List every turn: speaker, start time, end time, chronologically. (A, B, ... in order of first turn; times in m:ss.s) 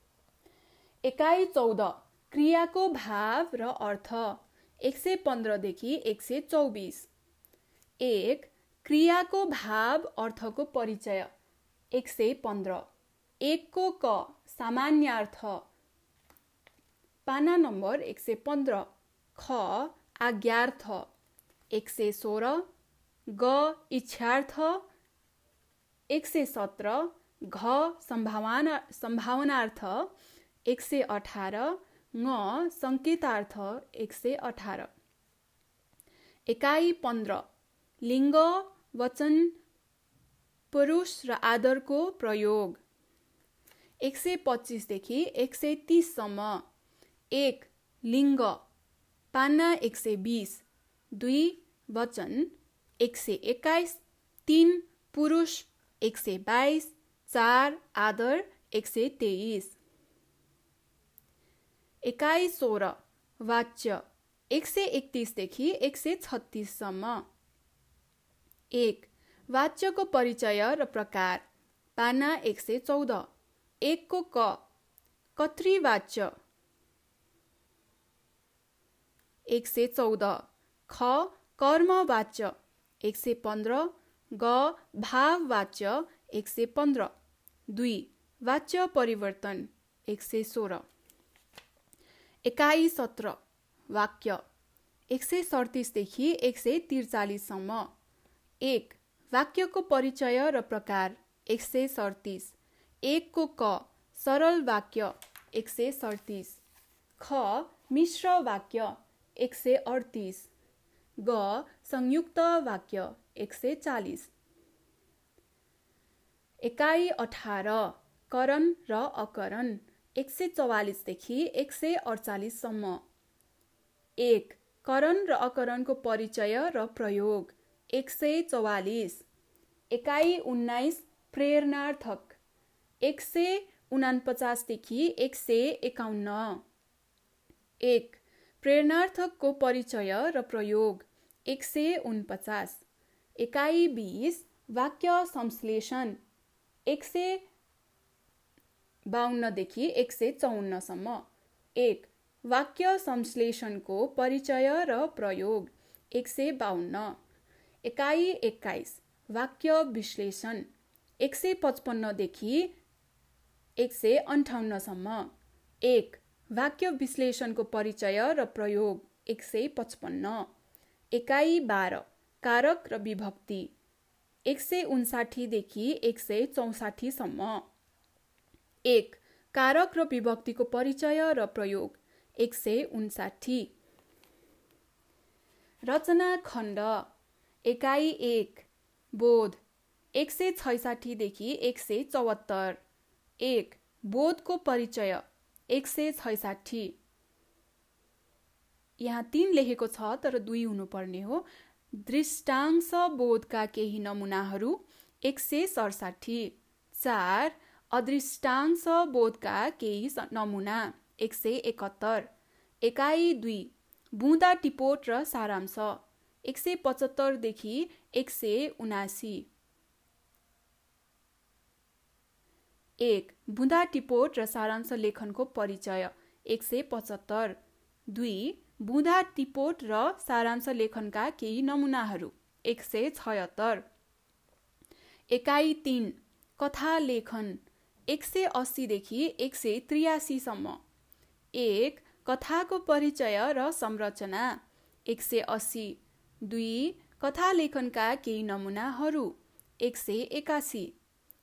0:01.0-0:07.1 A
0:08.0-0:11.3 A
0:11.9-0:12.9 A
0:13.4-0:15.6 A
0:17.2-0:21.1 A
0:21.7-0:22.6 A
0:23.3-0:24.8 A
0:26.1-0:30.1 A
0:30.6-0:34.9 A
0:36.5-0:37.4 A
0:38.0-0:39.6 A
0:40.7-0:42.8 A
0:44.0-0:46.6 A
0:47.3-0:48.6 A
0:49.3-0:59.8 A
1:02.0-1:07.2 A
1:08.7-1:11.4 A
1:12.0-1:13.3 A
1:13.8-1:14.6 A
1:15.4-1:16.3 A
1:19.4-1:27.1 A
1:27.7-1:30.8 A
1:32.4-1:34.4 A
1:35.1-1:37.9 A
1:38.6-1:46.6 A
1:47.2-1:50.5 A
1:51.2-1:54.3 A
1:56.6-2:03.0 A
2:04.2-2:09.2 A
2:09.9-2:12.4 A
2:13.0-2:16.6 A
2:17.8-2:22.8 A
2:23.4-2:26.2 A
2:26.8-2:27.4 A
2:29.1-2:37.2 A
2:37.8-2:40.7 A
2:41.2-2:42.7 A
2:43.8-2:45.3 A
2:45.8-2:50.5 A
2:51.1-2:53.7 A
2:54.4-2:57.7 A
2:58.8-3:03.7 A
3:05.8-3:07.1 A
3:07.6-3:09.6 A
3:10.1-3:12.8 A
3:13.4-3:17.0 A
3:19.0-3:32.3 A
3:32.8-3:39.5 A
3:43.0-3:53.8 A
3:55.3-4:00.8 A
4:01.5-4:10.9 A